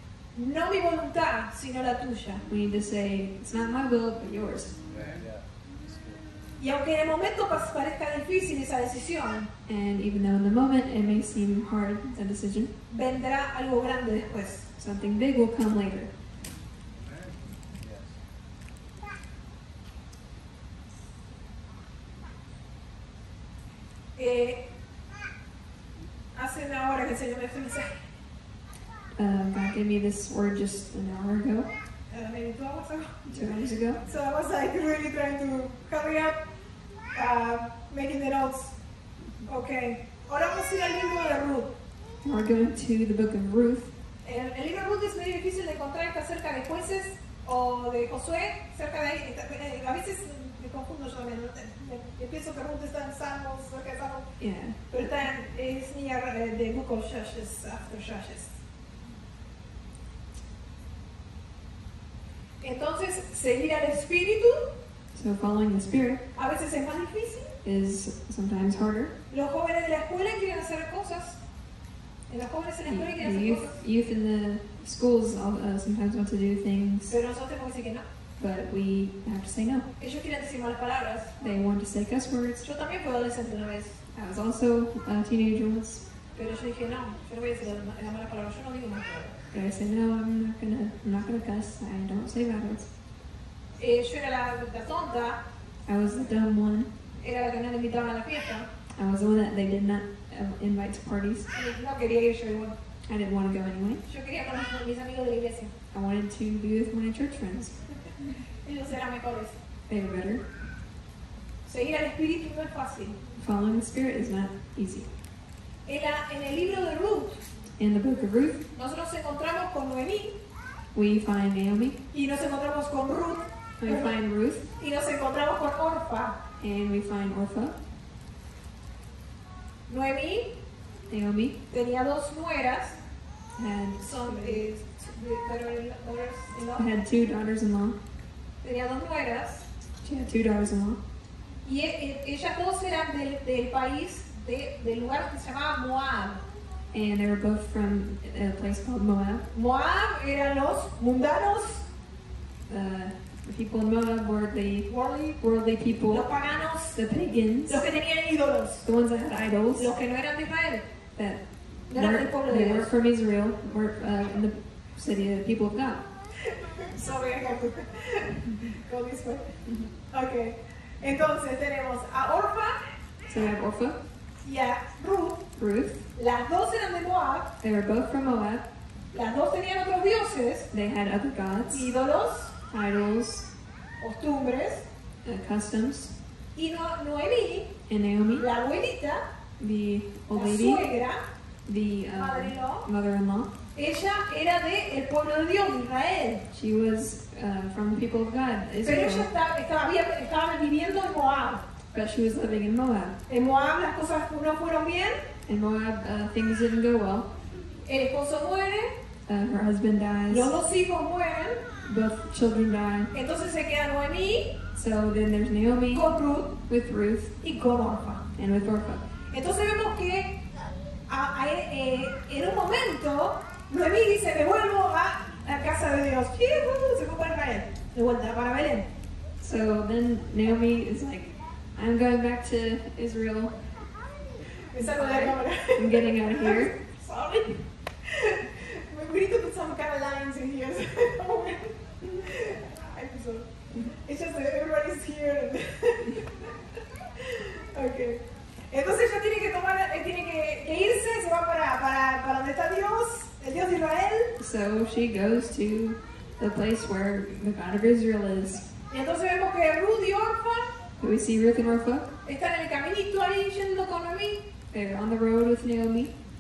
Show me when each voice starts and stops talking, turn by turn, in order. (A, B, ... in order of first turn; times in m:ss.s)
0:00.4-0:02.4 A
0:02.5-0:04.8 B
0:04.9-0:06.2 C
0:06.6-0:09.5 A
0:09.7-0:12.7 B
0:12.9-0:14.7 A
0:14.8-0:16.1 B
0:17.0-0:18.2 C
0:24.2-0:24.6 A
0:26.4-0:28.0 A
0:29.2-0:31.7 B
0:32.1-0:33.3 A
0:33.3-0:34.0 B
0:34.0-0:36.4 A
0:37.1-0:38.7 A
0:39.4-0:41.7 A
0:42.2-0:43.9 B
0:44.2-0:54.3 A
0:54.4-0:54.8 B
0:54.9-0:58.5 A
1:02.6-1:04.7 A
1:05.1-1:06.2 B
1:06.4-1:07.5 A
1:07.6-1:09.1 B
1:09.3-1:11.4 A
1:12.3-1:13.8 A
1:12.9-1:17.2 B
1:17.1-1:18.1 A
1:18.4-1:19.9 B
1:20.0-1:21.3 A
1:21.4-1:22.6 B
1:22.6-1:24.0 A
1:24.1-1:26.0 B
1:26.4-1:29.4 A
1:29.5-1:32.9 B
1:33.8-1:35.4 A
1:35.9-1:36.9 B
1:37.2-1:38.7 A
1:39.0-1:41.5 B
1:41.5-1:42.8 A
1:43.1-1:44.0 B
1:44.1-1:45.7 A
1:45.9-1:47.8 B
1:48.6-1:49.6 A
1:49.9-1:50.4 B
1:51.7-1:53.2 A
1:53.4-1:55.1 B
1:55.9-1:57.4 A
1:57.8-1:58.6 B
1:58.8-2:00.4 A
2:00.9-2:02.0 B
2:02.1-2:04.1 A
2:03.8-2:04.7 B
2:04.8-2:06.4 A
2:06.6-2:07.8 B
2:09.9-2:10.5 A
2:11.1-2:11.6 B
2:11.7-2:13.0 A
2:13.6-2:14.6 B
2:14.0-2:16.9 A
2:16.8-2:18.0 B
2:18.6-2:19.6 A
2:20.0-2:21.0 B
2:21.6-2:26.4 A
2:26.9-2:29.5 B
2:29.5-2:31.8 A
2:32.7-2:34.9 B
2:34.9-2:35.4 A
2:35.4-2:36.3 B
2:36.1-2:37.0 A
2:37.0-2:37.9 B
2:37.7-2:38.9 A
2:38.8-2:40.0 B
2:39.8-2:40.9 A
2:41.2-2:46.0 B
2:41.9-2:42.9 A
2:46.5-2:49.5 A
2:50.1-2:52.8 A
2:53.3-2:54.0 B
2:54.4-2:55.5 A
2:55.6-2:56.1 B
2:56.2-2:57.5 A
2:57.6-2:58.7 B
2:59.1-3:00.7 A
3:00.7-3:01.9 B
3:01.7-3:02.5 A
3:02.7-3:03.5 B
3:04.0-3:04.9 A
3:05.2-3:06.1 B
3:06.6-3:07.7 A
3:07.9-3:08.5 B
3:08.4-3:09.2 A
3:09.6-3:10.9 B
3:10.3-3:11.2 A
3:11.7-3:13.5 B
3:12.2-3:12.9 A
3:13.8-3:16.4 A
3:16.5-3:19.3 B
3:18.8-3:21.6 A
3:21.9-3:23.2 B
3:23.3-3:25.2 A
3:25.5-3:27.3 B
3:27.9-3:28.9 A
3:29.3-3:30.6 B
3:30.3-3:31.6 A
3:31.8-3:33.1 B
3:33.1-3:34.6 A
3:34.7-3:36.1 B
3:35.9-3:36.5 A
3:36.6-3:37.3 B
3:37.4-3:38.2 A
3:38.4-3:39.1 B
3:39.3-3:40.4 A
3:41.1-3:48.9 A
3:49.4-3:53.6 B
3:54.7-4:06.5 A
3:54.8-3:56.7 B
4:07.2-4:14.3 A
4:14.4-4:18.6 B
4:18.9-4:20.7 A
4:21.0-4:22.1 B
4:22.2-4:24.4 A
4:24.7-4:26.1 B